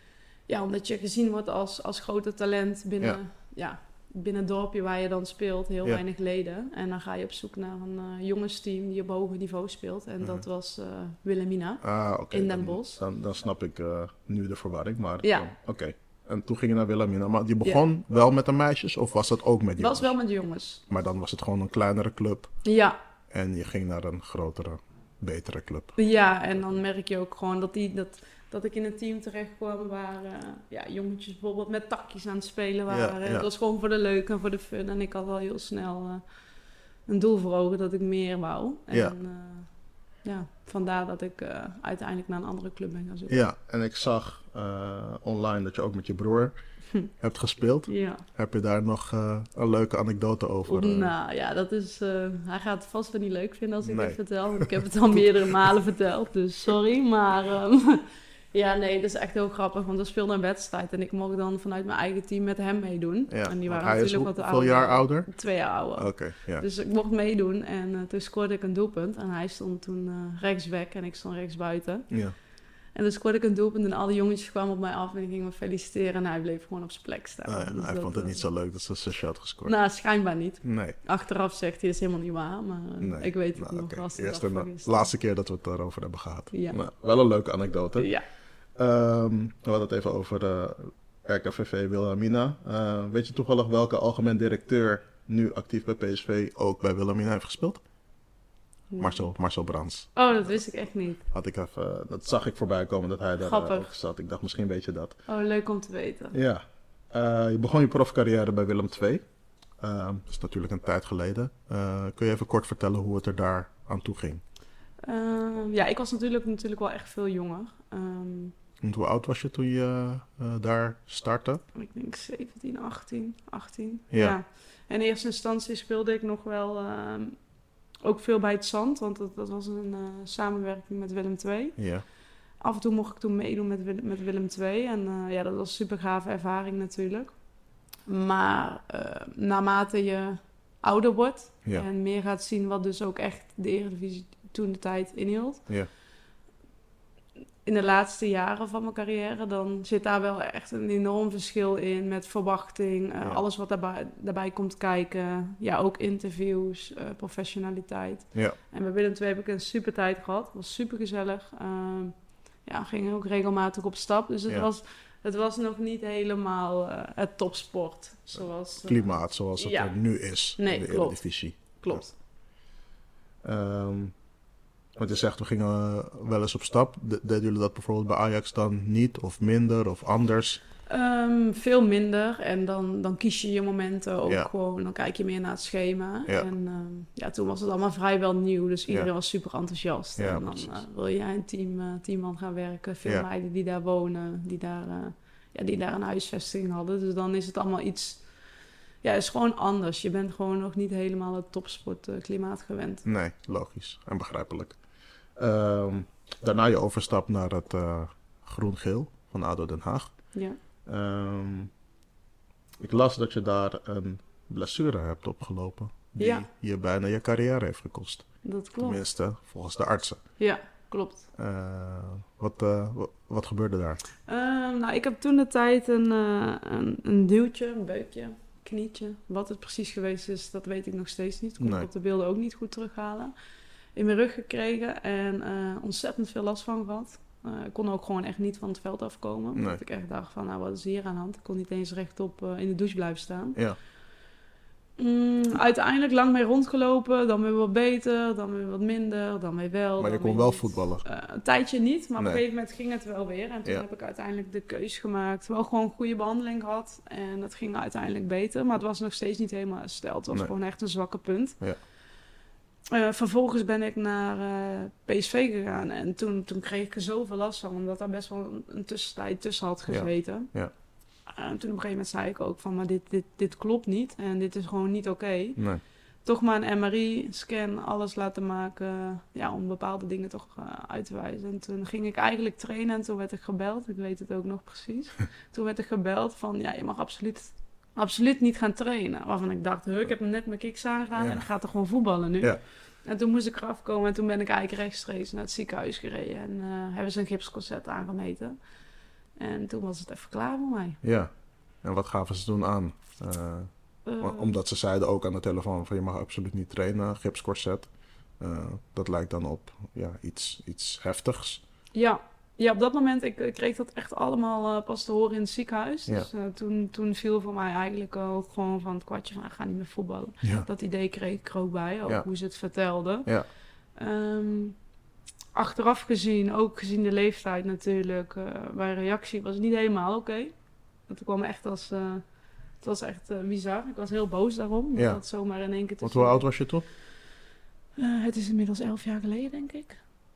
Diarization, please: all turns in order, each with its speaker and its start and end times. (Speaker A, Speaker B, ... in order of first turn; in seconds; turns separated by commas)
Speaker A: 0.5-13.0, Speaker B: 11.8-20.1, Speaker A: 15.2-15.5, Speaker A: 19.8-20.8, Speaker B: 20.9-22.5, Speaker A: 22.6-23.0, Speaker B: 23.3-26.0, Speaker A: 26.0-36.2, Speaker B: 32.9-33.5, Speaker A: 37.1-39.7, Speaker B: 38.9-39.1, Speaker A: 40.2-43.4, Speaker B: 43.3-46.5, Speaker B: 47.2-51.1, Speaker A: 47.9-48.2, Speaker A: 50.7-72.1, Speaker B: 53.8-55.5, Speaker B: 63.3-65.3, Speaker B: 66.0-66.7, Speaker B: 72.1-72.4, Speaker A: 73.0-78.4, Speaker B: 77.5-79.8, Speaker A: 79.6-85.1, Speaker B: 80.6-81.0, Speaker B: 83.0-88.1, Speaker A: 86.5-86.8, Speaker A: 88.0-88.2, Speaker B: 88.8-97.8, Speaker A: 98.9-99.3, Speaker B: 99.0-100.6, Speaker A: 100.1-101.2, Speaker B: 101.3-105.2, Speaker A: 103.4-103.9, Speaker A: 105.3-106.4, Speaker B: 106.3-109.2, Speaker B: 109.8-114.4, Speaker A: 115.0-118.5, Speaker B: 118.8-121.6, Speaker A: 121.8-127.4, Speaker B: 124.1-124.4, Speaker A: 128.0-131.8, Speaker B: 131.8-132.1, Speaker A: 132.6-137.3, Speaker A: 138.1-145.6, Speaker A: 147.6-169.9, Speaker B: 168.4-172.1, Speaker A: 170.6-172.1, Speaker B: 173.4-174.1, Speaker B: 175.0-180.6, Speaker A: 180.9-198.2, Speaker B: 190.2-190.8, Speaker A: 199.0-203.1, Speaker B: 203.1-204.8, Speaker B: 205.4-210.1, Speaker B: 210.9-211.7, Speaker B: 212.8-218.2, Speaker A: 216.2-216.5, Speaker A: 218.4-219.0, Speaker B: 218.8-220.2, Speaker A: 220.4-221.3, Speaker B: 221.4-224.0, Speaker A: 224.3-233.3, Speaker B: 231.6-231.9, Speaker A: 234.0-243.6, Speaker B: 239.6-239.8, Speaker A: 245.0-261.6, Speaker B: 250.0-251.0, Speaker A: 262.9-270.5, Speaker B: 269.9-270.7, Speaker A: 271.3-275.6, Speaker A: 276.2-298.6, Speaker B: 291.2-291.4, Speaker A: 299.4-301.0, Speaker B: 301.0-301.3, Speaker B: 301.8-307.9, Speaker A: 304.1-304.5, Speaker B: 308.4-311.6, Speaker A: 311.9-323.3, Speaker B: 320.4-320.7, Speaker A: 324.0-324.8, Speaker A: 325.6-330.5, Speaker A: 331.1-332.2, Speaker A: 332.8-336.5, Speaker B: 335.0-335.2, Speaker B: 336.0-336.9, Speaker A: 338.0-340.0